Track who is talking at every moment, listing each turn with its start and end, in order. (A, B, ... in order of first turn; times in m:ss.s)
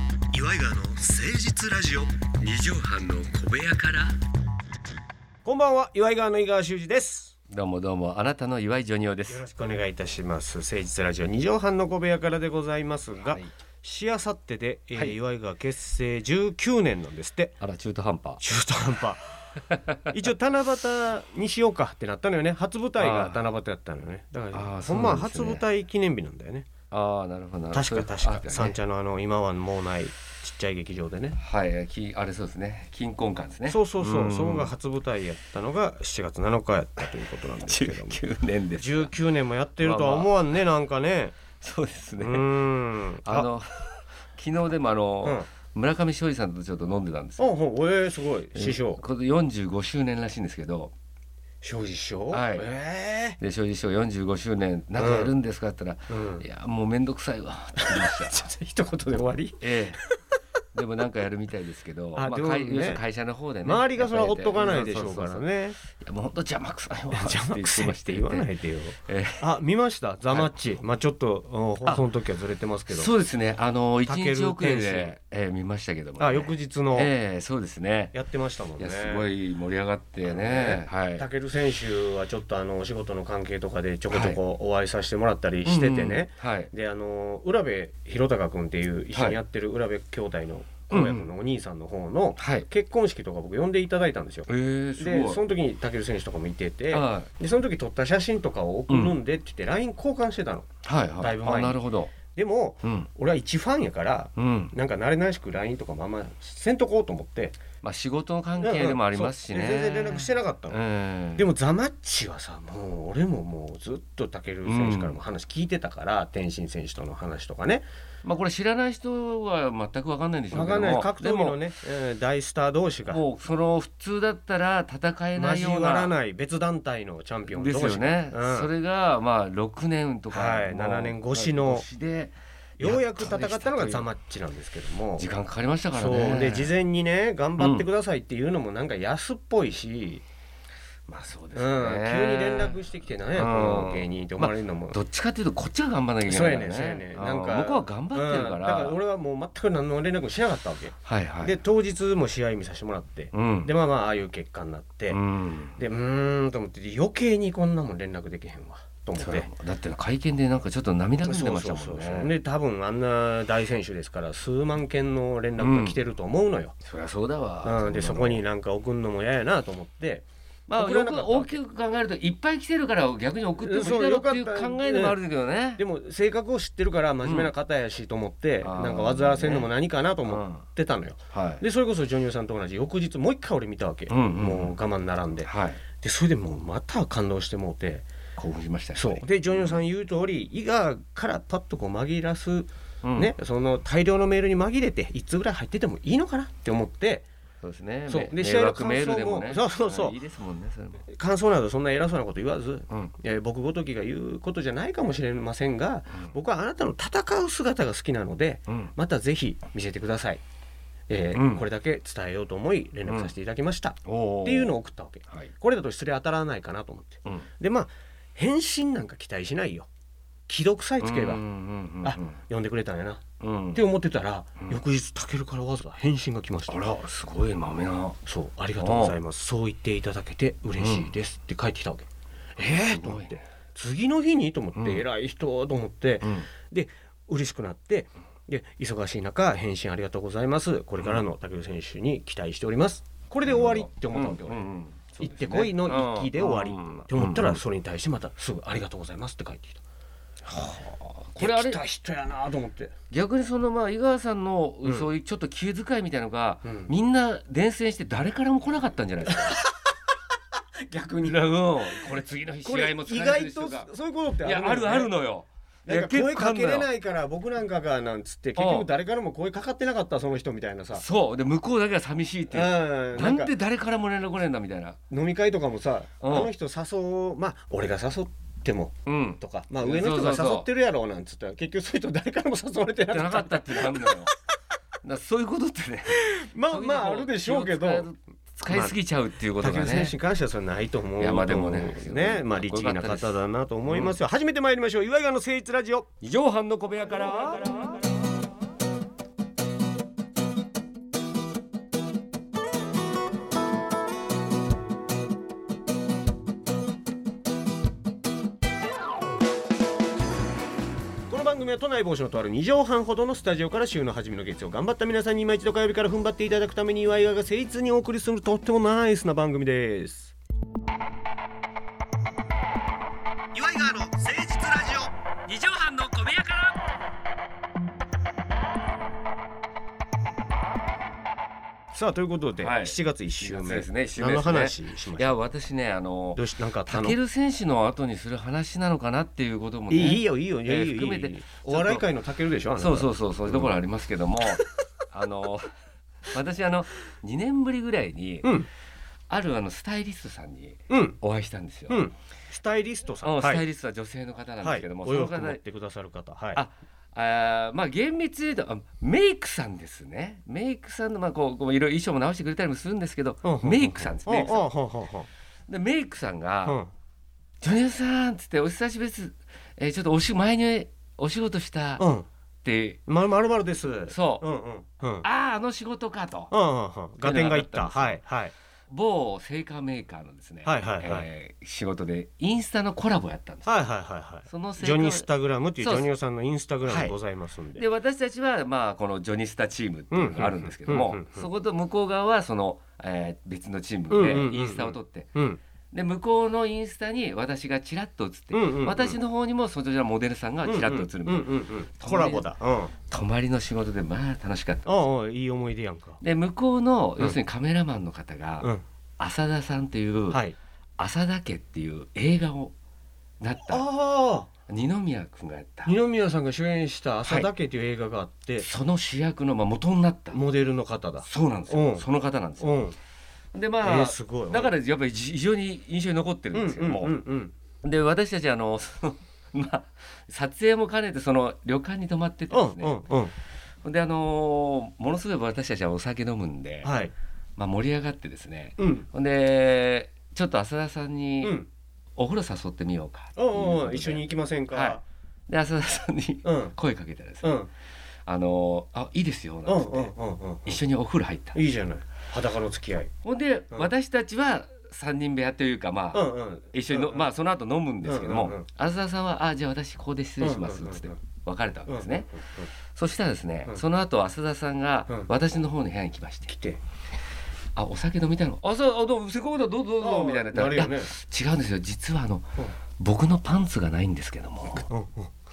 0:00.3-0:02.1 A
0:02.2-0:04.1 B
0:05.4-0:07.4 A
0:07.5-0:09.4 B
0:09.3-0:17.6 A
0:13.2-0:13.5 B
0:17.6-0:18.4 B
0:18.4-0:19.5 A
0:20.1-0:26.7 A
0:23.0-0:23.5 B
0:24.5-0:25.6 B
0:26.9-0:28.8 B
0:27.7-0:31.4 A
0:31.4-0:34.7 B
0:33.7-0:38.2 A
0:37.6-0:39.1 B
0:38.8-0:41.4 A
0:39.8-0:40.3 B
0:41.6-0:42.5 B
0:42.2-0:43.5 A
0:43.2-0:47.5 B
0:47.4-0:49.0 A
0:48.5-0:50.9 B
0:51.6-0:53.4 A
0:52.3-0:52.7 B
0:53.4-0:58.4 B
0:55.0-0:55.3 A
0:56.1-0:56.4 A
0:57.9-0:59.6 A
0:59.6-1:00.0 B
1:00.7-1:08.5 B
1:02.2-1:03.0 A
1:03.6-1:05.8 A
1:07.1-1:13.1 A
1:09.0-1:09.4 B
1:10.3-1:10.5 B
1:12.9-1:18.1 B
1:14.0-1:15.1 A
1:16.2-1:17.1 A
1:18.1-1:19.3 A
1:18.8-1:21.2 B
1:20.2-1:40.7 A
1:24.1-1:24.4 B
1:25.6-1:26.7 B
1:29.1-1:29.4 B
1:30.9-1:31.3 B
1:32.4-1:32.7 B
1:34.5-1:35.4 B
1:36.9-1:37.3 B
1:38.9-1:39.2 B
1:40.8-1:42.1 B
1:41.2-1:47.6 A
1:42.8-1:43.1 B
1:44.4-1:44.7 B
1:47.8-1:51.5 B
1:48.6-1:50.8 A
1:51.4-1:57.8 A
1:54.6-1:55.2 B
1:58.2-2:01.7 B
2:00.5-2:03.2 A
2:03.1-2:06.1 B
2:05.4-2:08.7 A
2:07.5-2:14.1 B
2:10.3-2:11.8 A
2:12.8-2:15.3 A
2:15.2-2:16.7 B
2:15.9-2:20.2 A
2:17.6-2:17.9 B
2:21.1-2:22.8 B
2:21.5-2:25.0 A
2:23.3-2:29.0 B
2:26.2-2:35.2 A
2:31.0-2:31.6 B
2:33.3-2:33.7 B
2:35.1-2:35.8 B
2:35.8-2:39.5 A
2:39.2-2:42.3 B
2:41.2-2:46.7 A
2:45.6-2:46.0 B
2:46.8-2:48.4 B
2:47.6-2:50.2 A
2:50.7-2:55.8 B
2:50.8-2:51.6 A
2:53.6-2:55.2 A
2:55.8-3:05.5 A
2:57.2-2:57.5 B
2:58.6-2:59.7 B
3:00.2-3:00.6 B
3:01.3-3:01.6 B
3:04.1-3:04.8 B
3:05.4-3:05.8 B
3:06.0-3:08.1 A
3:08.4-3:09.8 B
3:09.0-3:17.2 A
3:13.0-3:13.3 B
3:17.6-3:21.0 B
3:18.1-3:20.2 A
3:21.1-3:30.4 A
3:28.7-3:28.9 B
3:31.1-3:39.9 A
3:31.3-3:31.6 B
3:33.1-3:33.3 B
3:34.0-3:34.7 B
3:40.5-3:41.4 A
3:41.0-3:42.4 B
3:42.0-3:43.2 A
3:43.4-3:43.8 B
3:43.7-3:46.9 A
3:46.7-3:48.2 B
3:48.2-4:04.6 A
3:48.8-3:49.2 B
3:50.8-3:51.1 B
3:52.6-3:53.4 B
3:54.8-3:55.0 B
3:56.2-3:56.5 B
4:03.4-4:07.6 B
4:05.2-4:09.8 A
4:10.4-4:11.8 B
4:11.4-4:12.9 A
4:13.1-4:19.6 B
4:16.6-4:16.9 A
4:19.4-4:19.7 A
4:20.9-4:22.1 A
4:21.2-4:23.9 B
4:22.6-4:25.1 A
4:24.4-4:26.9 B
4:25.8-4:31.0 A
4:28.6-4:28.9 B
4:30.9-4:35.0 B
4:32.5-4:33.5 A
4:35.1-4:44.2 A
4:36.2-4:36.5 B
4:39.0-4:40.7 B
4:43.1-4:44.3 B
4:45.0-4:50.2 B
4:46.2-4:48.1 A
4:48.7-4:49.0 A
4:49.6-4:56.1 A
4:51.2-4:54.2 B
4:56.2-4:58.0 B
5:11.3-5:20.3 A
5:23.5-5:25.1 A
5:25.4-5:26.8 B
5:31.9-5:35.4 A
5:32.6-5:42.0 B
5:36.3-5:37.2 A
5:39.9-5:43.7 A
5:42.8-5:45.6 B
5:46.3-5:48.6 B
5:48.4-5:48.7 A
5:49.3-5:52.1 B
5:50.9-5:51.2 A
5:51.9-5:53.6 A
5:53.2-5:55.6 B
5:54.6-5:56.6 A
5:56.5-6:04.7 B
6:03.4-6:05.3 A
6:05.7-6:06.8 B
6:06.6-6:06.9 A
6:07.6-6:12.1 B
6:12.0-6:12.3 A
6:12.6-6:13.0 B
6:13.1-6:15.2 A
6:14.1-6:14.5 B
6:15.2-6:16.5 B
6:16.5-6:18.5 A
6:17.2-6:18.2 B
6:18.9-6:23.7 B
6:20.6-6:21.3 A
6:23.6-6:27.8 A
6:24.5-6:25.3 B
6:25.8-6:26.1 B
6:26.8-6:27.1 B
6:27.8-6:35.3 B
6:30.1-6:31.4 A
6:34.1-6:35.6 A
6:35.9-6:42.5 B
6:38.5-6:39.2 A
6:40.6-6:42.9 A
6:43.1-6:45.0 B
6:44.8-6:46.2 A
6:46.2-6:50.4 B
6:50.3-6:50.6 A
6:51.0-6:52.7 B
6:53.4-6:53.8 B
6:53.7-6:54.5 A
6:54.7-6:55.9 B
6:55.8-6:58.6 A
6:58.6-7:00.4 B
7:00.3-7:02.1 A
7:01.2-7:02.8 B
7:02.6-7:03.0 A
7:03.5-7:07.2 B
7:03.8-7:04.7 A
7:06.5-7:07.5 A
7:07.8-7:13.0 B
7:12.5-7:13.3 A
7:13.8-7:17.0 B
7:16.8-7:17.1 A
7:17.6-7:21.6 B
7:18.8-7:19.1 A
7:21.4-7:21.7 A
7:22.2-7:27.6 B
7:23.4-7:25.0 A
7:26.4-7:26.7 A
7:27.4-7:27.7 A
7:28.2-7:30.1 B
7:29.6-7:30.8 A
7:30.6-7:31.6 B
7:31.5-7:33.1 A
7:33.2-7:42.3 B
7:36.1-7:37.3 A
7:38.0-7:38.6 A
7:40.4-7:41.1 A
7:41.9-7:42.7 A
7:42.9-7:46.5 B
7:46.5-7:46.8 A
7:47.7-7:54.9 B
7:50.0-7:51.1 A
7:54.9-7:55.3 A